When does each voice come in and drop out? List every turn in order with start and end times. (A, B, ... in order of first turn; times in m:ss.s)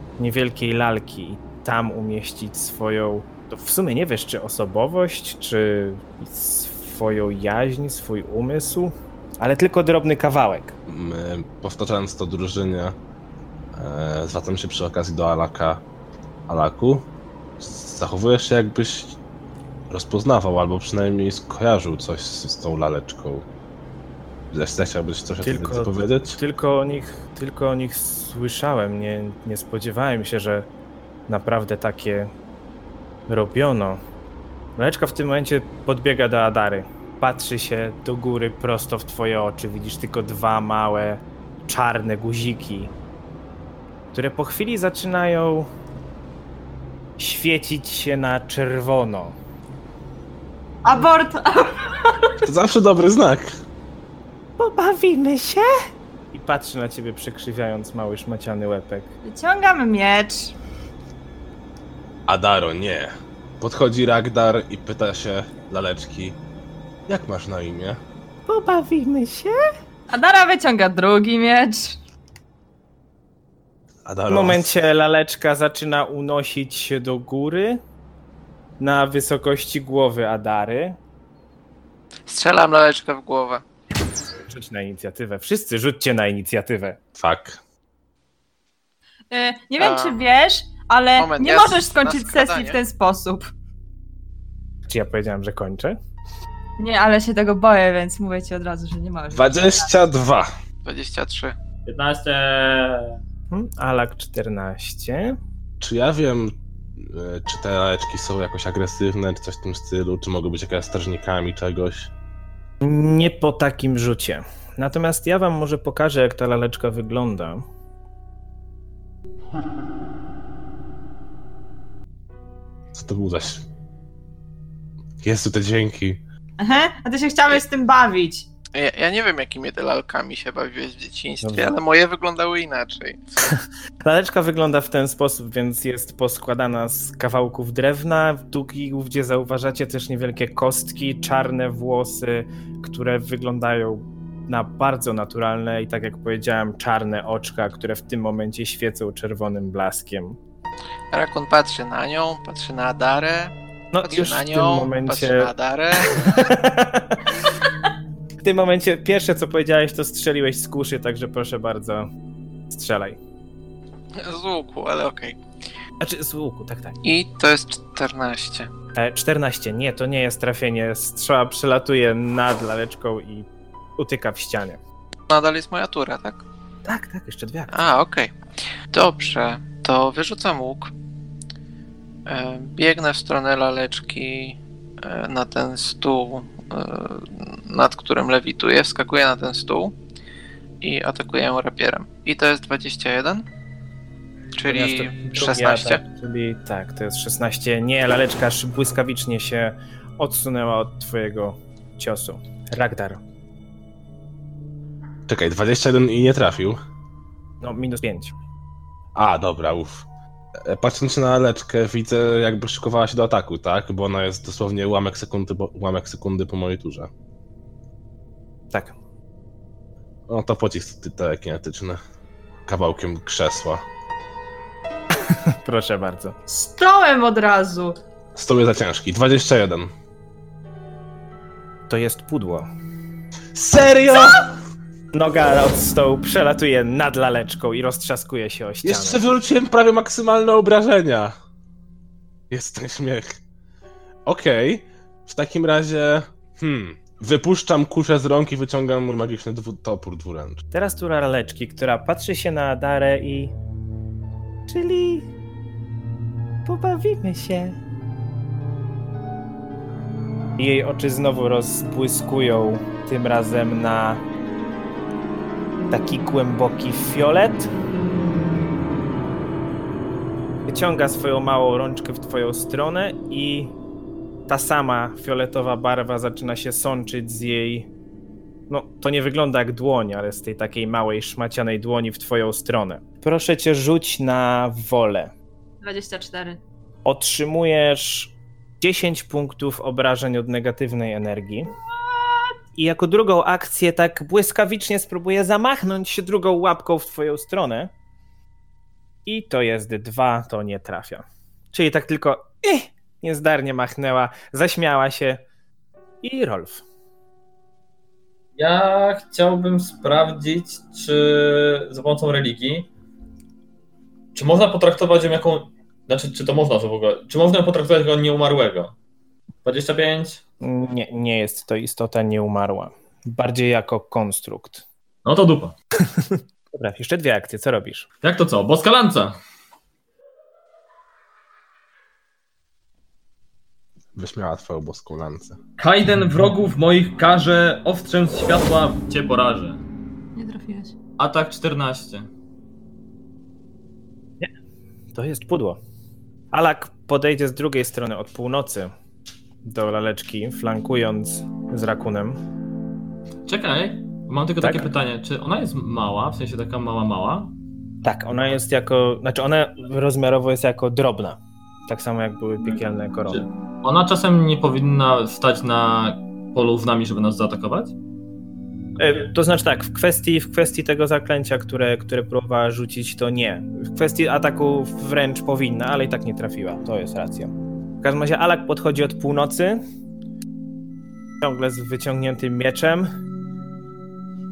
0:00.2-0:10.8 A
0:10.9-0:13.0 B
0:13.7-0:15.8 B
0:16.5-0:17.1 B
0:17.6-0:19.2 B
0:19.9-0:23.5 B
0:24.5-0:26.4 B
0:25.4-0:30.7 A
0:31.3-0:32.3 A
0:33.3-0:34.0 A
0:34.8-0:42.9 A
0:44.1-0:45.7 A
0:47.2-0:49.4 A
0:50.8-0:52.3 C
0:52.4-0:53.6 B
0:54.6-0:55.7 A
0:56.3-0:59.1 A
0:59.2-1:00.5 C
1:02.3-1:06.4 B
1:07.1-1:08.0 B
1:08.5-1:09.6 A
1:10.1-1:12.0 C
1:14.0-1:14.7 B
1:14.3-1:17.8 A
1:18.8-1:21.0 A
1:22.3-1:23.6 D
1:24.5-1:27.0 A
1:27.2-1:27.6 B
1:29.3-1:33.5 C
1:29.8-1:30.2 D
1:31.2-1:32.8 D
1:34.9-1:36.0 A
1:36.8-1:39.9 C
1:39.3-1:40.5 B
1:40.8-1:41.6 D
1:41.9-1:43.2 E
1:43.5-1:45.4 A
1:45.8-1:52.1 B
1:52.8-1:57.7 A
2:02.9-2:03.6 B
2:05.2-2:06.2 B
2:06.6-2:08.5 C
2:08.7-2:13.2 D
2:11.4-2:11.8 A
2:14.0-2:30.4 A
2:31.1-2:33.5 D
2:33.9-2:35.5 A
2:34.0-2:36.5 D
2:36.1-2:37.4 A
2:38.4-2:42.1 A
2:42.7-2:43.2 A
2:44.2-2:45.4 D
2:46.0-2:47.0 A
2:47.0-2:48.7 D
2:49.0-2:54.8 A
2:55.3-2:56.4 D
2:56.8-2:57.9 A
2:57.7-2:58.3 D
2:58.9-3:00.9 D
3:02.3-3:10.0 D
3:10.8-3:13.5 D
3:14.6-3:16.0 D
3:14.7-3:23.2 A
3:25.3-3:26.8 B
3:27.6-3:28.3 A
3:29.2-3:30.1 B
3:30.6-3:37.1 B
3:38.7-3:39.0 A
3:40.3-3:42.0 B
3:42.7-3:43.8 B
3:45.3-3:46.4 A
3:46.5-3:48.0 C
3:48.4-3:49.9 B
3:51.9-3:52.7 A
3:53.5-3:54.5 B
3:55.1-3:59.2 A
3:58.8-4:01.4 B
4:02.5-4:03.4 B
4:04.3-4:10.6 B
4:10.7-4:13.5 A
4:14.7-4:15.3 A
4:16.6-4:17.8 A
4:20.6-4:24.2 A
4:25.9-4:27.7 A
4:30.7-4:33.7 A
4:34.5-4:37.9 A
4:38.7-4:45.3 A
4:45.8-4:46.6 C
4:47.1-4:51.7 A
4:52.8-4:57.9 A
4:59.3-5:05.4 A
5:06.2-5:06.8 A
5:08.6-5:12.9 E
5:14.4-5:18.9 E
5:19.6-5:20.4 E
5:20.6-5:24.8 A
5:25.2-5:25.8 E
5:26.1-5:28.1 A
5:28.2-5:29.4 E
5:34.2-5:35.6 B
5:35.8-5:39.8 E
5:40.4-5:41.0 C
5:41.2-5:42.3 E
5:45.2-5:45.8 A
5:46.5-5:48.9 A
5:49.6-5:52.4 A
5:53.5-5:57.5 E
5:54.6-5:54.9 A
5:58.0-6:03.4 A
6:03.3-6:08.0 E
6:09.0-6:19.8 A
6:21.4-6:23.1 A